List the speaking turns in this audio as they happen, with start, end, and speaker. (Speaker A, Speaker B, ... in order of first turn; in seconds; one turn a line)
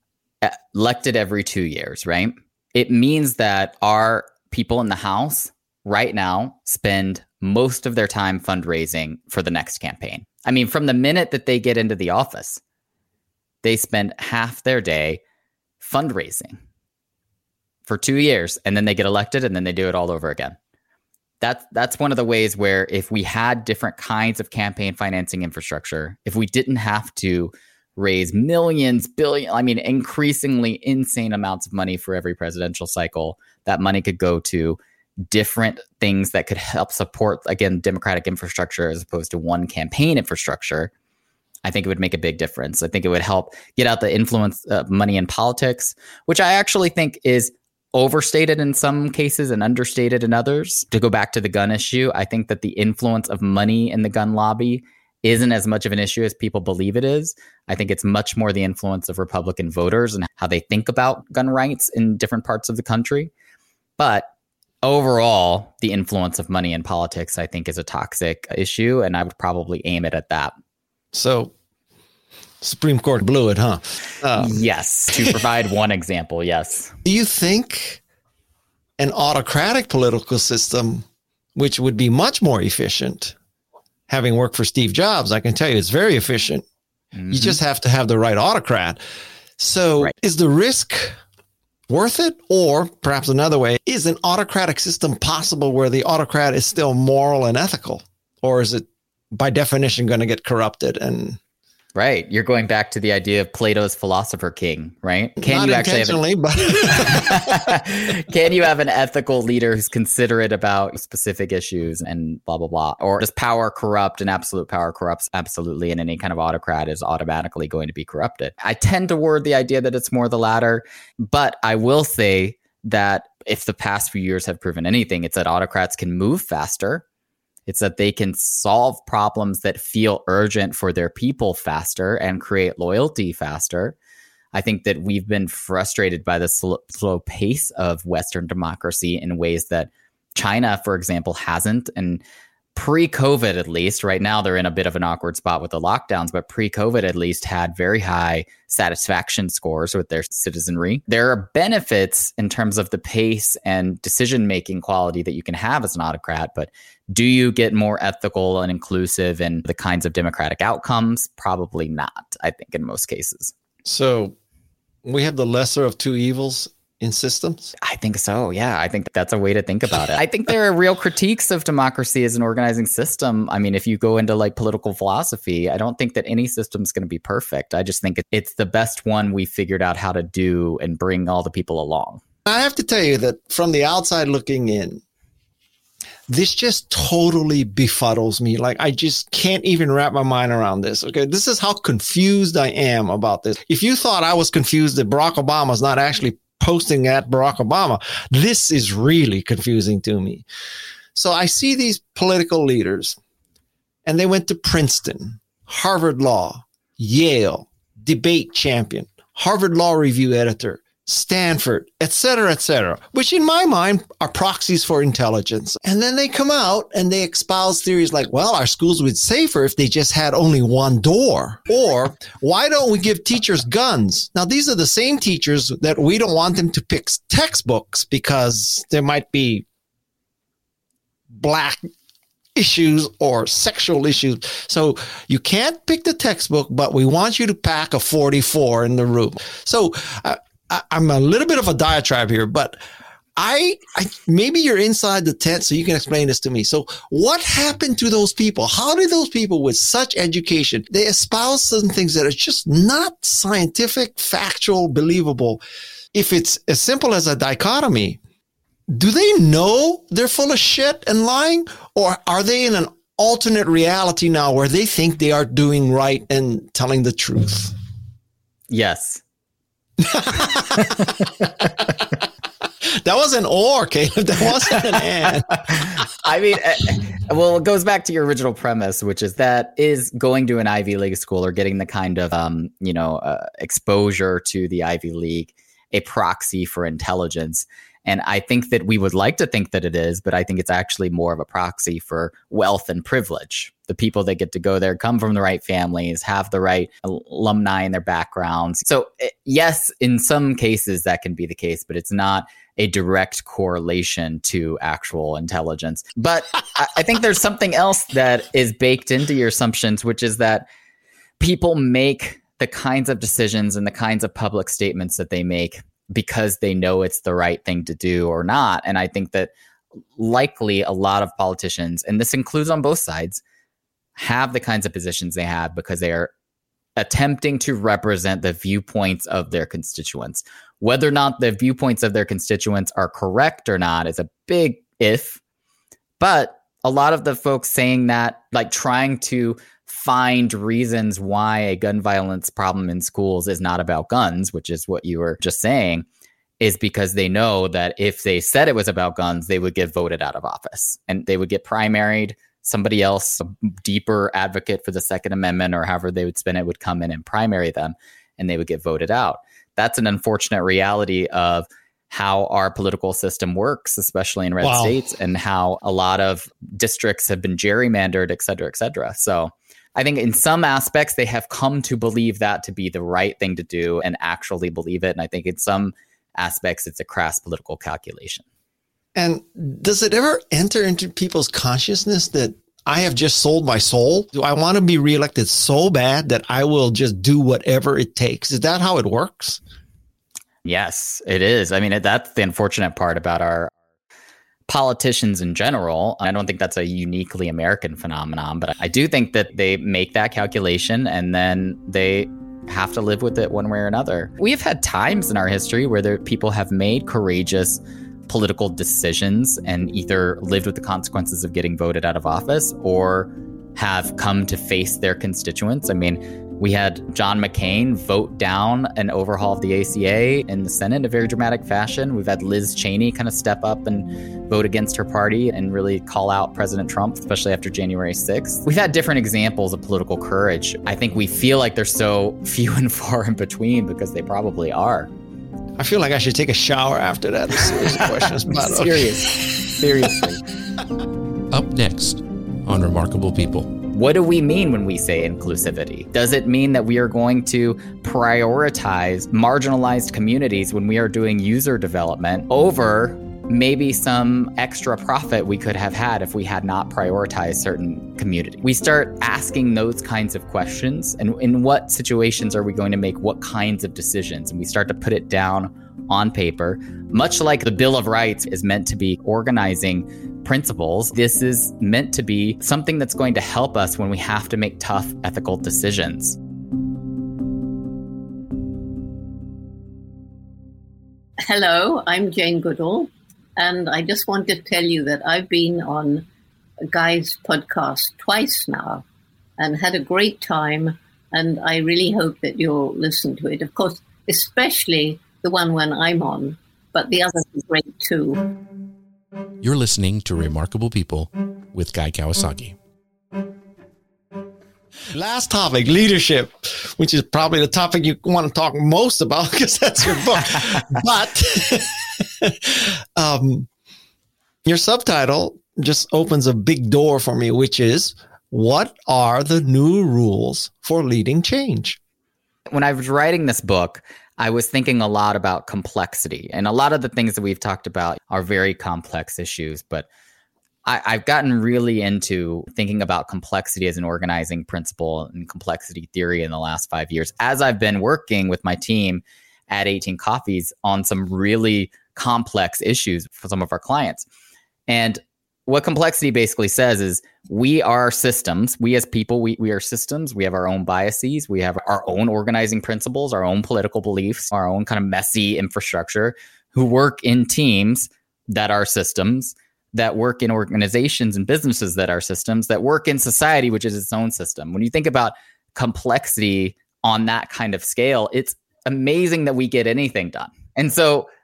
Speaker A: 0.4-12.6
Speaker A: 13.6-15.2
Speaker A: 15.8-16.6
Speaker A: 17.9-20.6
Speaker A: 21.4-40.9
Speaker A: 41.6-63.3
Speaker A: 64.0-64.3
Speaker A: 64.8-70.5
Speaker B: 71.1-71.5
Speaker B: 72.6-74.6
Speaker A: 74.3-76.9
Speaker B: 77.0-78.0
Speaker B: 79.0-83.3
Speaker B: 84.1-86.6
Speaker A: 87.1-87.6
Speaker B: 87.3-89.0
Speaker B: 89.6-91.2
Speaker B: 91.9-101.4
Speaker A: 101.9-106.2
Speaker B: 105.4-107.7
Speaker A: 106.9-127.0
Speaker A: 127.7-133.9
Speaker A: 134.5-142.2
Speaker A: 142.7-163.5
Speaker B: 163.8-164.3
Speaker B: 165.0-167.7
Speaker A: 167.8-182.2
Speaker B: 182.5-185.0
Speaker B: 186.3-200.4
Speaker B: 201.1-203.2
Speaker B: 204.0-229.6
Speaker B: 231.3-231.8
Speaker B: 232.6-242.8
Speaker B: 243.3-255.6
Speaker B: 256.1-258.2
Speaker B: 258.9-267.7
Speaker A: 268.7-269.2
Speaker B: 270.0-271.9
Speaker B: 272.8-275.6
Speaker A: 275.6-310.6
Speaker A: 311.4-319.5
Speaker A: 320.1-323.4
Speaker A: 324.2-326.3
Speaker A: 327.0-335.4
Speaker A: 336.2-346.1
Speaker A: 346.6-378.4
Speaker B: 364.6-364.9
Speaker B: 379.1-389.6
Speaker A: 390.6-393.7
Speaker A: 394.7-435.1
Speaker B: 435.8-439.4
Speaker A: 437.8-440.4
Speaker C: 441.5-443.7
Speaker A: 443.9-476.4
Speaker D: 481.4-486.3
Speaker D: 486.8-489.0
Speaker D: 489.6-498.5
Speaker C: 499.6-502.8
Speaker B: 505.1-513.7
Speaker B: 514.6-522.0
Speaker A: 522.7-530.1
Speaker A: 530.8-544.2
Speaker A: 544.9-571.3